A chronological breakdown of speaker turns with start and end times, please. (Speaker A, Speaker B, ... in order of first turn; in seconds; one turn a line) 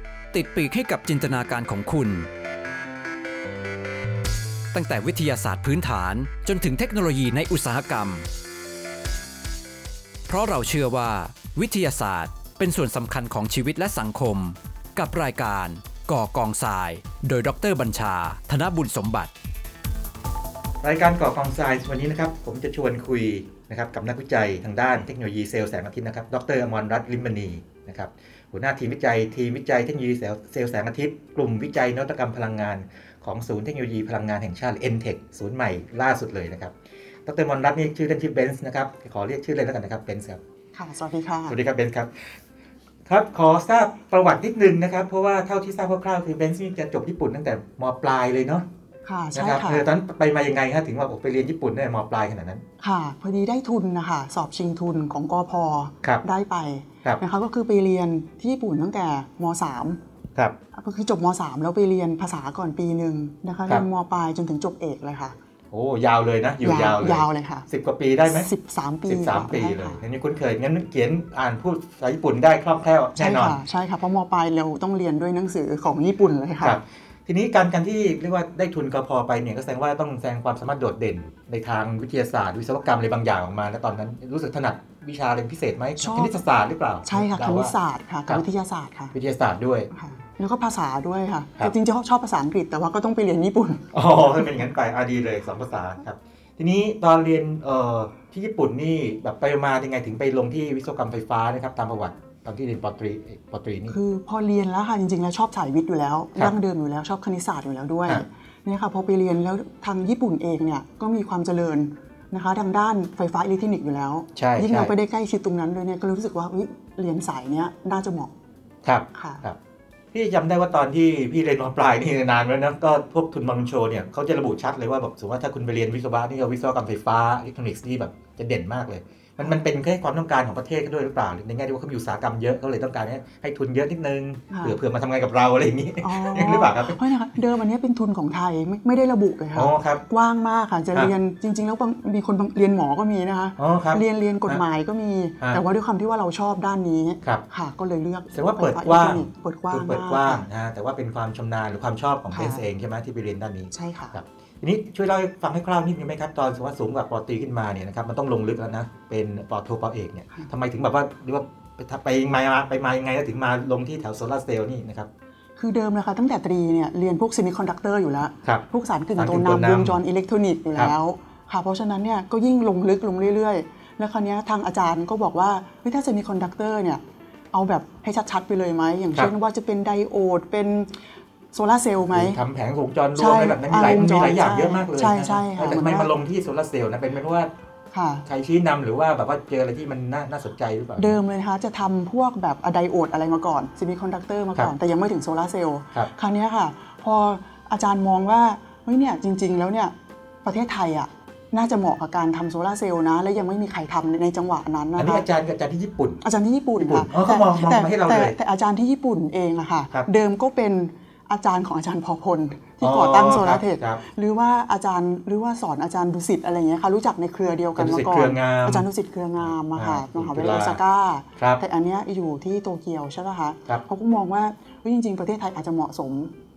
Speaker A: 0.3-2.3
Speaker A: 4.7-8.3
Speaker A: 10.3-19.3
Speaker B: 20.8-36.7
Speaker B: 37.2-40.4
Speaker C: 40.7-41.6
Speaker B: 41.5-42.3
Speaker B: 43.0-48.7
Speaker C: 49.0-49.9
Speaker B: 49.3-52.6
Speaker C: 52.8-60.0
Speaker C: 60.7-65.3
Speaker B: 65.7-68.5
Speaker C: 66.6-67.7
Speaker C: 68.2-70.0
Speaker B: 69.1-73.6
Speaker C: 73.2-76.8
Speaker B: 76.6-87.7
Speaker C: 86.0-86.3
Speaker C: 87.0-89.1
Speaker B: 89.1-89.9
Speaker C: 89.9-93.9
Speaker B: 93.9-104.0
Speaker C: 103.9-118.3
Speaker B: 114.3-114.9
Speaker B: 118.8-119.6
Speaker C: 119.1-119.4
Speaker B: 120.1-137.0
Speaker C: 134.5-134.8
Speaker C: 136.0-150.4
Speaker B: 139.5-140.0
Speaker B: 143.6-144.6
Speaker B: 148.3-165.1
Speaker C: 152.3-152.6
Speaker C: 153.7-154.2
Speaker C: 165.6-177.0
Speaker B: 169.2-170.0
Speaker C: 177.5-180.9
Speaker C: 181.5-182.4
Speaker B: 182.0-187.5
Speaker C: 183.2-186.1
Speaker C: 187.9-188.2
Speaker B: 188.2-191.2
Speaker C: 191.0-199.9
Speaker C: 200.4-205.2
Speaker B: 204.9-206.2
Speaker C: 206.2-226.3
Speaker B: 206.8-208.3
Speaker B: 212.8-214.0
Speaker B: 217.8-218.9
Speaker B: 219.7-220.8